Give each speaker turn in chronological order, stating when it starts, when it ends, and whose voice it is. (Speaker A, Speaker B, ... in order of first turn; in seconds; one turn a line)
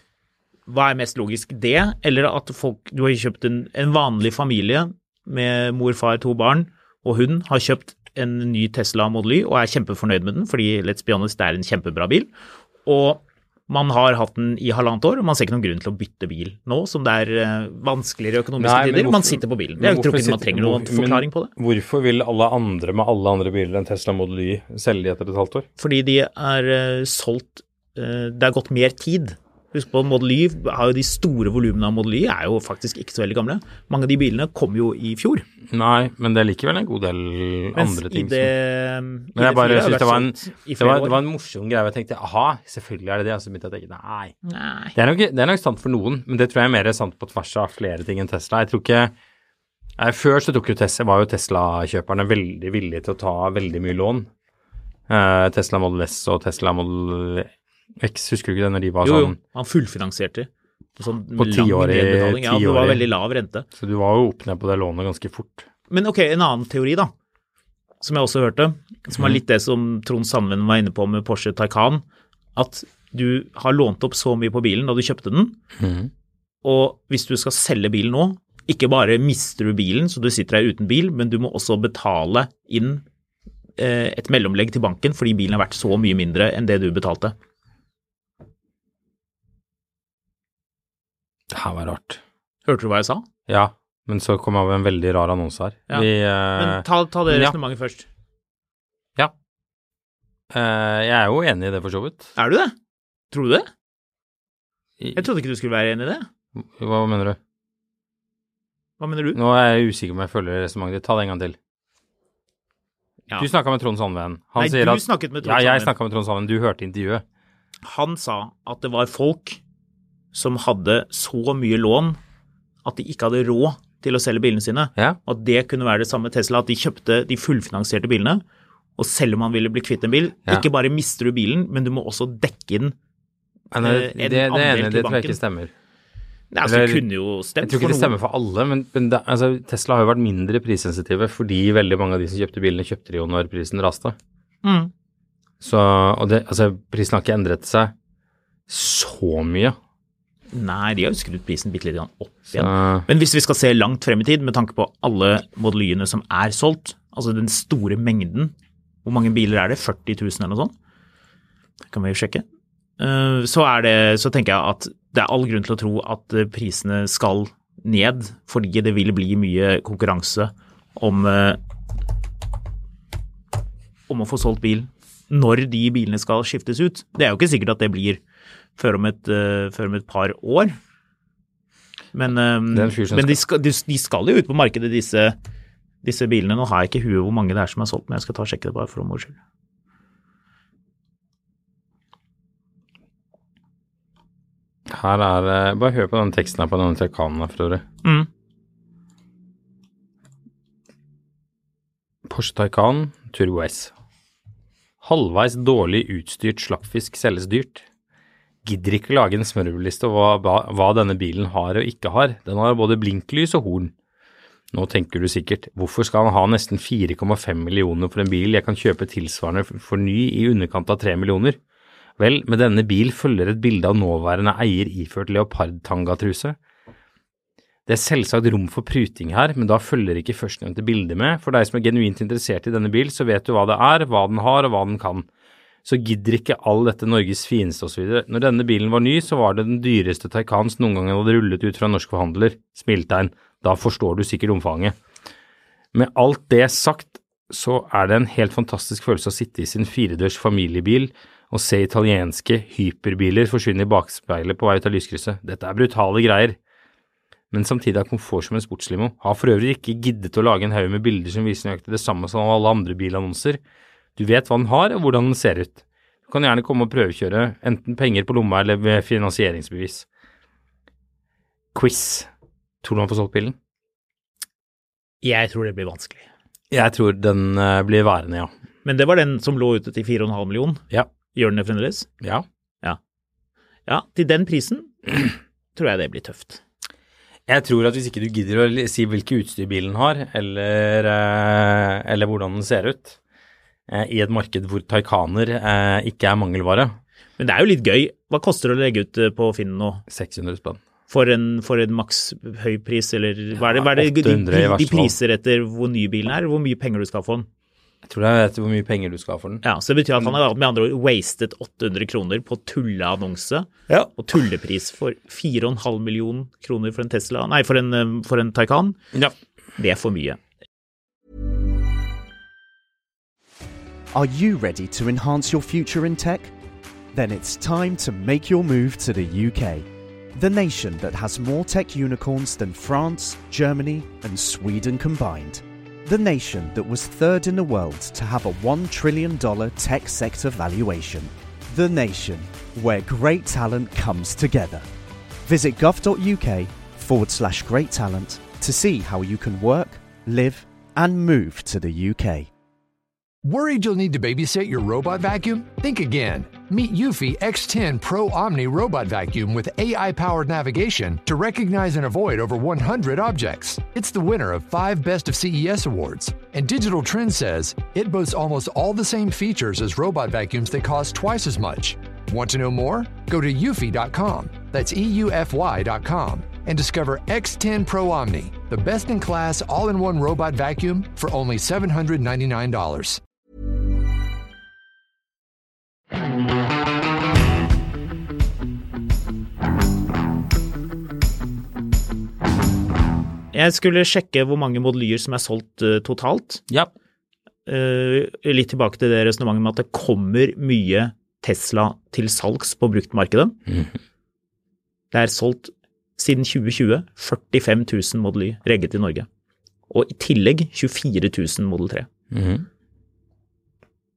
Speaker A: 0.7-12.3
Speaker A: 12.8-21.5
Speaker B: 18.6-25.6
Speaker A: 25.8-35.5
Speaker B: 35.7-38.5
Speaker A: 37.7-41.2
Speaker B: 39.4-44.3
Speaker A: 44.5-44.9
Speaker B: 44.9-49.1
Speaker B: 50.0-54.3
Speaker B: 55.1-57.5
Speaker B: 58.0-59.4
Speaker A: 59.0-63.6
Speaker B: 61.4-63.0
Speaker B: 63.7-65.7
Speaker A: 65.9-67.1
Speaker A: 68.0-72.0
Speaker A: 72.5-75.6
Speaker B: 75.8-76.1
Speaker A: 76.6-83.0
Speaker A: 83.8-87.3
Speaker B: 91.5-92.2
Speaker A: 92.7-93.3
Speaker B: 93.5-97.5
Speaker A: 95.9-98.0
Speaker B: 100.5-102.3
Speaker A: 102.3-102.7
Speaker A: 103.3-103.7
Speaker A: 105.1-106.3
Speaker B: 106.5-107.4
Speaker A: 109.0-109.4
Speaker B: 109.3-111.5
Speaker B: 113.4-117.2
Speaker A: 114.6-115.9
Speaker A: 117.8-119.6
Speaker A: 120.3-122.2
Speaker A: 122.8-128.4
Speaker A: 129.0-132.9
Speaker B: 133.7-135.7
Speaker A: 133.8-135.4
Speaker A: 136.5-138.1
Speaker B: 136.6-137.0
Speaker B: 137.6-144.2
Speaker A: 144.6-144.9
Speaker B: 145.6-147.9
Speaker B: 148.7-149.8
Speaker A: 150.5-158.5
Speaker B: 152.5-153.1
Speaker A: 159.0-160.7
Speaker A: 161.9-162.4
Speaker A: 163.0-171.6
Speaker A: 174.1-178.2
Speaker A: 178.8-180.8
Speaker A: 182.1-185.3
Speaker B: 182.7-183.4
Speaker A: 186.0-189.4
Speaker B: 194.9-197.8
Speaker B: 202.2-203.9
Speaker B: 205.0-207.8
Speaker B: 208.6-213.9
Speaker B: 214.7-221.6
Speaker B: 222.2-226.6
Speaker B: 227.9-235.2
Speaker B: 235.8-244.9
Speaker B: 245.9-256.6
Speaker B: 257.5-263.6
Speaker B: 264.2-270.1
Speaker B: 271.7-272.3
Speaker B: 272.8-273.6
Speaker A: 275.2-276.3
Speaker B: 276.7-278.5
Speaker A: 278.8-282.1
Speaker A: 283.9-285.1
Speaker A: 285.8-286.6
Speaker B: 287.5-293.2
Speaker B: 293.9-296.9
Speaker A: 297.4-300.0
Speaker B: 300.1-300.8
Speaker A: 301.1-307.5
Speaker B: 303.6-305.1
Speaker B: 308.0-309.6
Speaker A: 309.6-319.0
Speaker A: 319.8-320.4
Speaker C: 324.1-326.5
Speaker C: 327.1-344.8
Speaker C: 345.4-352.5
Speaker D: 353.4-383.2
Speaker A: 393.5-396.6
Speaker A: 397.6-403.6
Speaker B: 403.7-403.9
Speaker A: 405.1-409.3
Speaker A: 409.9-412.1
Speaker B: 412.3-412.6